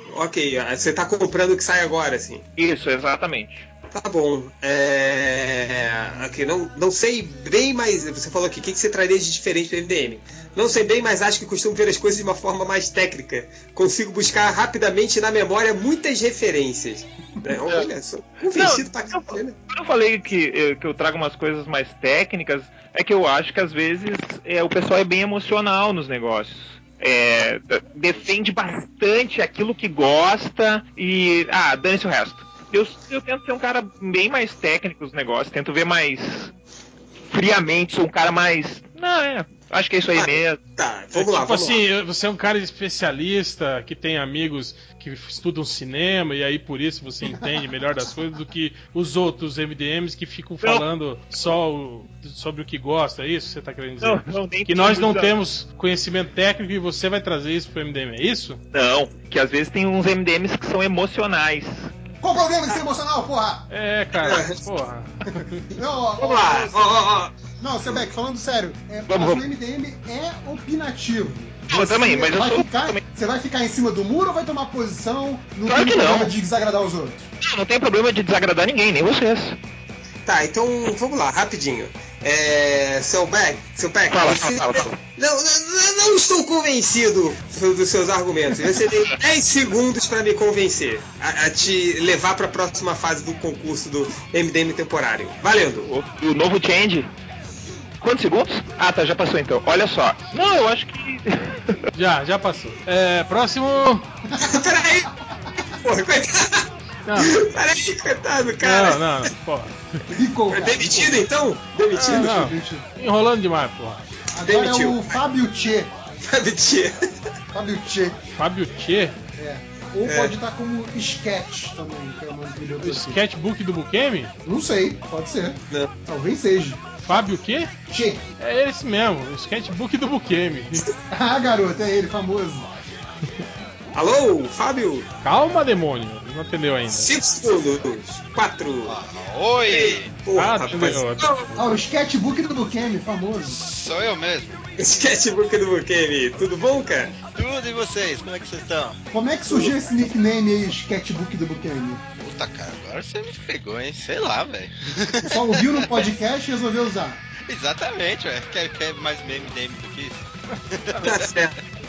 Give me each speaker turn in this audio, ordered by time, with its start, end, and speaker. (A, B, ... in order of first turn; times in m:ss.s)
0:00.1-0:02.4 A
0:02.6-0:03.7 B
0:03.9-0:19.6 A
0:18.5-0:19.2 B
0:19.7-0:36.5 B
0:37.3-0:40.6 B
0:40.2-0:41.8 A
0:41.1-0:58.6 C
0:50.6-0:50.9 B
0:54.0-0:55.3 B
0:58.7-1:01.9 B
1:02.2-1:03.6 D
1:03.7-1:05.6 C
1:04.2-1:04.6 A
1:05.7-1:07.0 D
1:06.2-1:07.4 A
1:07.6-1:17.2 D
1:09.1-1:09.4 B
1:11.7-1:13.0 B
1:15.7-1:16.3 B
1:17.4-1:19.6 B
1:20.3-1:35.9 A
1:24.1-1:25.0 B
1:35.9-1:37.1 B
1:38.0-1:41.6 B
1:41.9-1:44.1 C
1:44.4-1:45.1 A
1:45.7-1:46.7 A
1:47.1-1:47.3 C
1:47.2-1:49.0 A
1:48.6-1:49.8 C
1:50.1-1:51.3 D
1:50.5-1:52.4 A
1:52.0-1:54.1 C
1:52.0-1:52.9 D
1:54.4-1:55.9 D
1:54.4-1:55.2 A
1:56.2-1:57.0 A
1:57.5-1:58.2 D
1:58.4-1:59.2 C
1:59.4-2:03.2 D
2:00.0-2:00.4 A
2:02.8-2:04.3 C
2:04.4-2:06.8 D
2:07.0-2:07.7 C
2:07.9-2:08.2 D
2:08.4-2:10.9 C
2:11.1-2:12.8 D
2:14.0-2:15.1 A
2:15.2-2:17.1 C
2:16.9-2:19.0 A
2:18.8-2:20.1 E
2:19.7-2:21.5 A
2:20.4-2:21.5 C
2:21.6-2:23.6 D
2:23.5-2:24.6 E
2:24.8-2:27.1 A
2:27.4-2:29.0 E
2:29.1-2:32.0 D
2:32.2-2:36.0 E
2:35.2-2:37.2 D
2:37.5-2:41.3 E
2:41.0-2:41.6 A